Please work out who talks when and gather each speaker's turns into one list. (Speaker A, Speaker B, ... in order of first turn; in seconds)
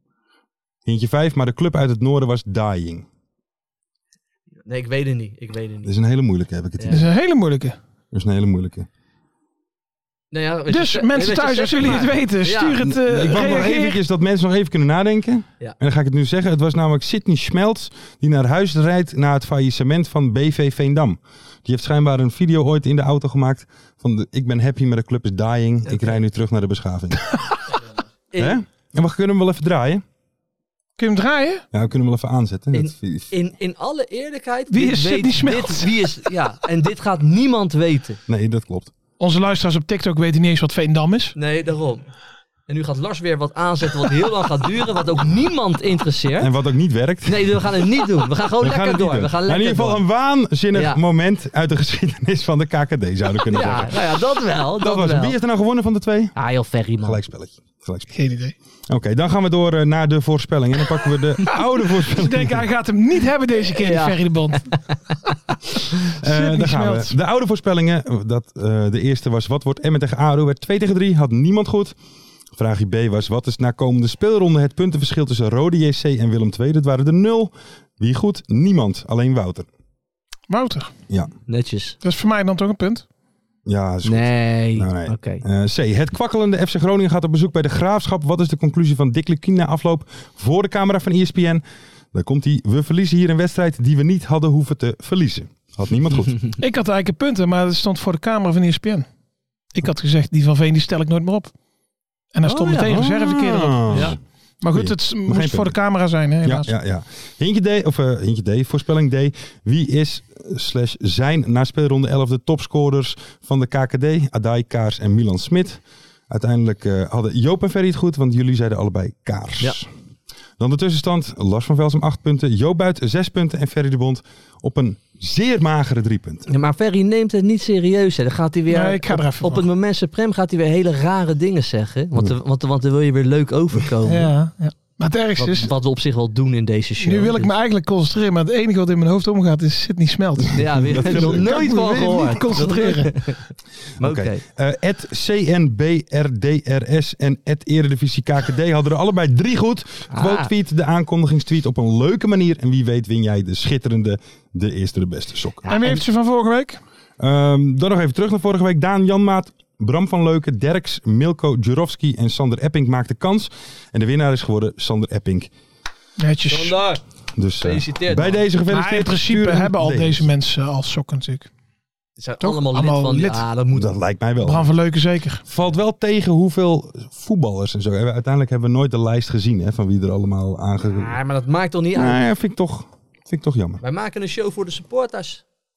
Speaker A: 0.8-3.1, 5.8-7.1, 8.1-8.9, 12.8-27.3, 28.4-30.0, 31.7-33.3, 38.3-38.9, 46.4-47.7, 48.6-54.0, 54.8-56.4, 57.0-58.1, 58.9-62.7, 66.2-72.0, 72.5-79.7, 83.7-96.4, 102.7-104.2, 104.7-105.8, 106.4-119.9, 120.6-126.5, 140.7-141.7, 144.0-155.7, 157.2-165.5, 167.3-170.3, 173.7-174.7, 175.5-181.1, 181.9-183.8
Speaker B: 4.6-5.9, 6.8-7.0, 10.3-12.8, 25.9-26.2, 28.3-28.6, 32.7-38.2, 41.4-42.1, 42.7-46.5, 47.3-50.0, 50.7-51.0, 53.5-55.4, 56.4-57.2, 63.7-64.7, 81.5-82.0, 84.0-85.4, 102.5-103.0, 103.9-104.2, 126.5-134.3, 135.4-137.5, 140.5-143.5, 144.0-144.4, 150.1-150.5, 155.6-156.0, 166.5-167.0, 167.6-168.5, 172.2-174.0, 180.8-182.2, 183.8-185.4
Speaker C: 6.9-7.8, 10.7-14.0, 31.0-31.6, 34.7-36.0, 39.2-41.4, 58.1-58.5, 61.6-64.7, 66.1-67.1, 80.5-80.9, 82.0-83.0, 96.6-99.1, 99.7-101.5, 102.3-106.7, 128.7-129.6, 134.1-135.7, 137.0-143.1, 155.7-156.8, 166.2-166.8, 168.7-171.5, 172.4-173.5, 174.4-175.4